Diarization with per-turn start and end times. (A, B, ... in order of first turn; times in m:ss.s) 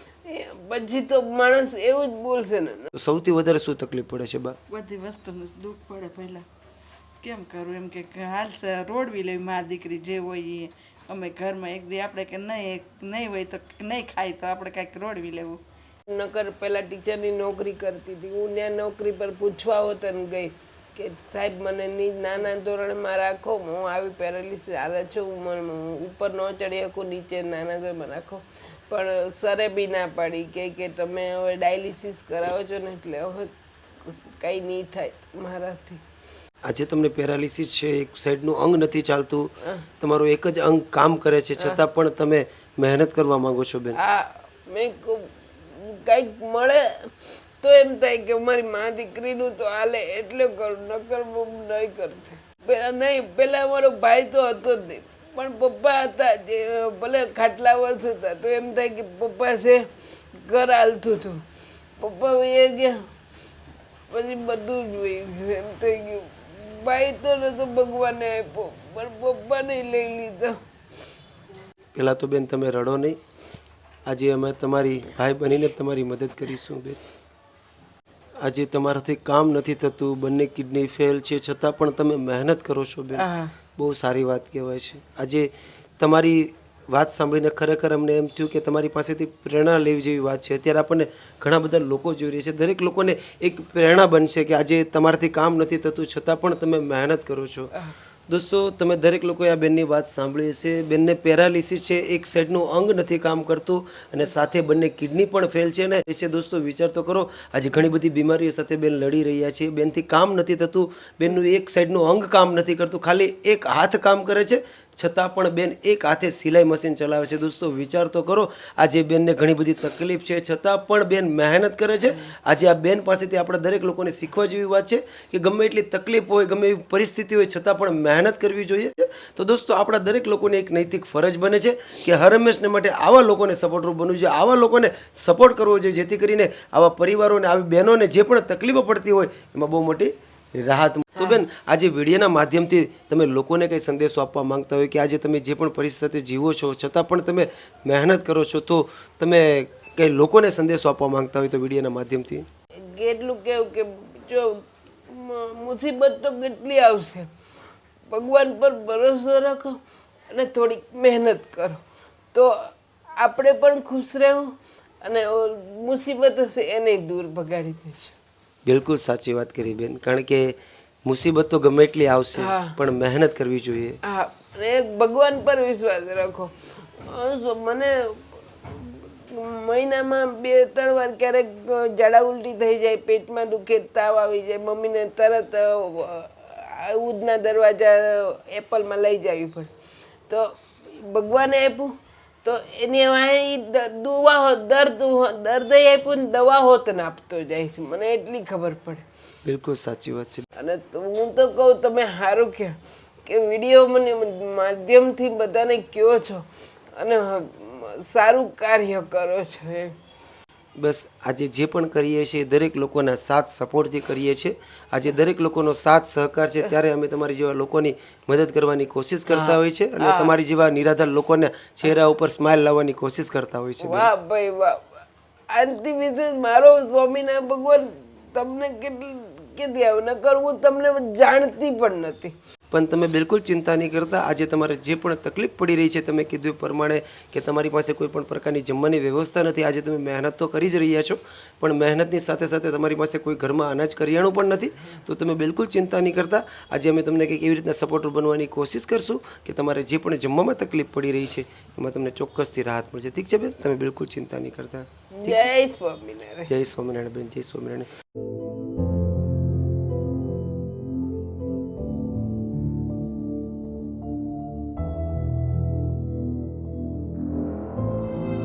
0:00.2-0:02.9 A
0:02.9-0:04.6 B
0:04.7-0:06.4 C
0:07.2-0:15.6 C
0:16.1-0:36.0 A
0:36.7-0:44.0 B
0:44.0-1:01.4 A
1:02.0-1:03.0 A
1:04.1-1:10.6 A
1:12.0-1:13.2 B
1:14.1-1:17.0 B
1:18.4-1:23.3 B
1:23.2-1:23.5 A
1:23.8-1:37.7 B
1:38.3-2:32.5 B
2:32.8-2:37.3 A
2:38.1-2:41.8 A
2:42.3-2:48.2 A
2:48.7-2:54.0 B
2:52.4-2:52.8 A
2:54.0-3:09.7 A
3:10.3-3:19.0 A
3:19.4-3:20.5 B
3:20.6-3:29.9 A
3:30.8-3:44.1 B
3:39.3-3:40.4 A
3:43.8-3:52.3 A
3:52.7-4:15.5 B
4:15.2-4:16.5 A
4:16.5-4:17.9 B